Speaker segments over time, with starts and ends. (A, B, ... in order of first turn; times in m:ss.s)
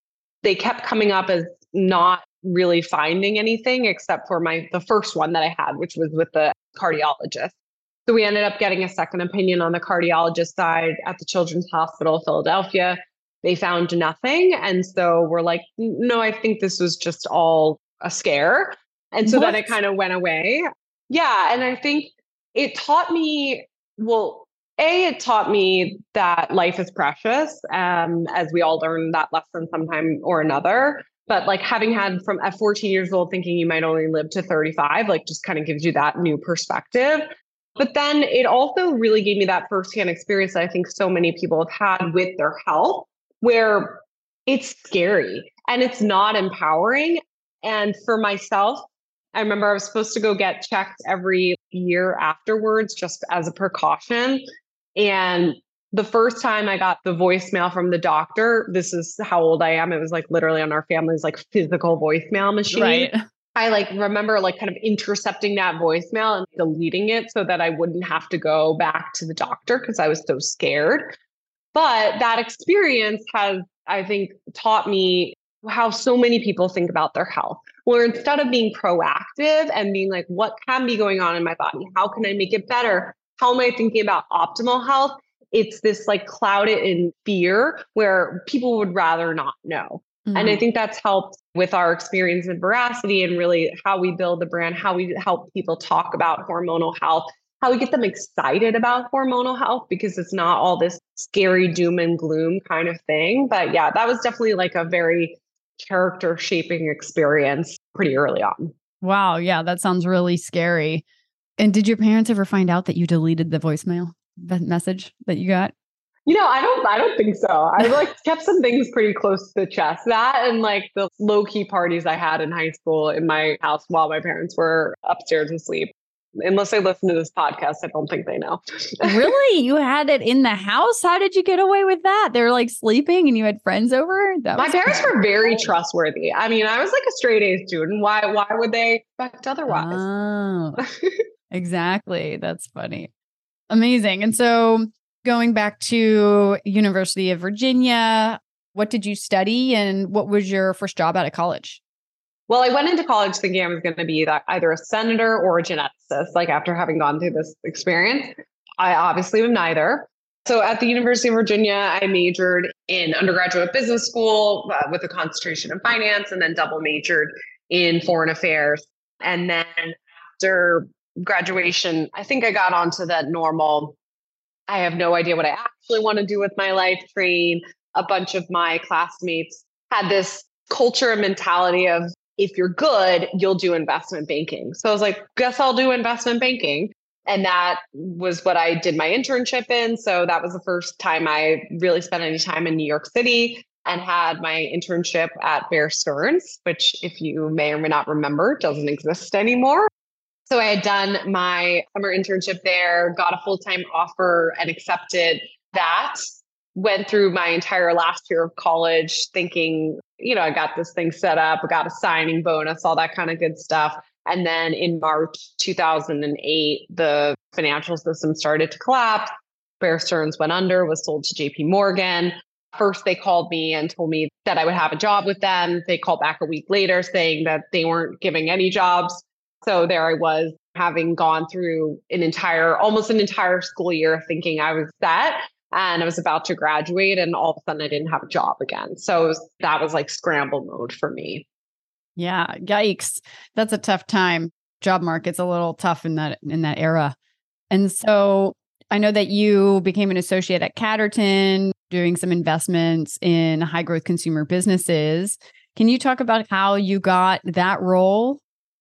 0:00.4-0:07.5 A
0:08.0-0:54.4 A
0:19.2-0:19.8 B
0:55.0-1:11.1 A
1:02.7-1:03.2 B
1:11.7-1:48.7 A
1:30.2-1:30.6 B
1:49.0-1:51.0 B
1:51.6-1:55.7 B
1:56.2-2:09.3 A
2:09.0-2:15.1 B
2:14.6-2:20.0 A
2:19.7-2:20.8 B
2:20.8-2:21.2 A
2:21.5-2:23.1 B
2:23.7-2:31.8 B
2:32.5-2:54.0 A
2:54.7-3:19.9 A
3:20.5-3:26.2 A
3:26.7-4:01.4 A
4:02.2-4:07.2 B
4:07.7-4:18.4 B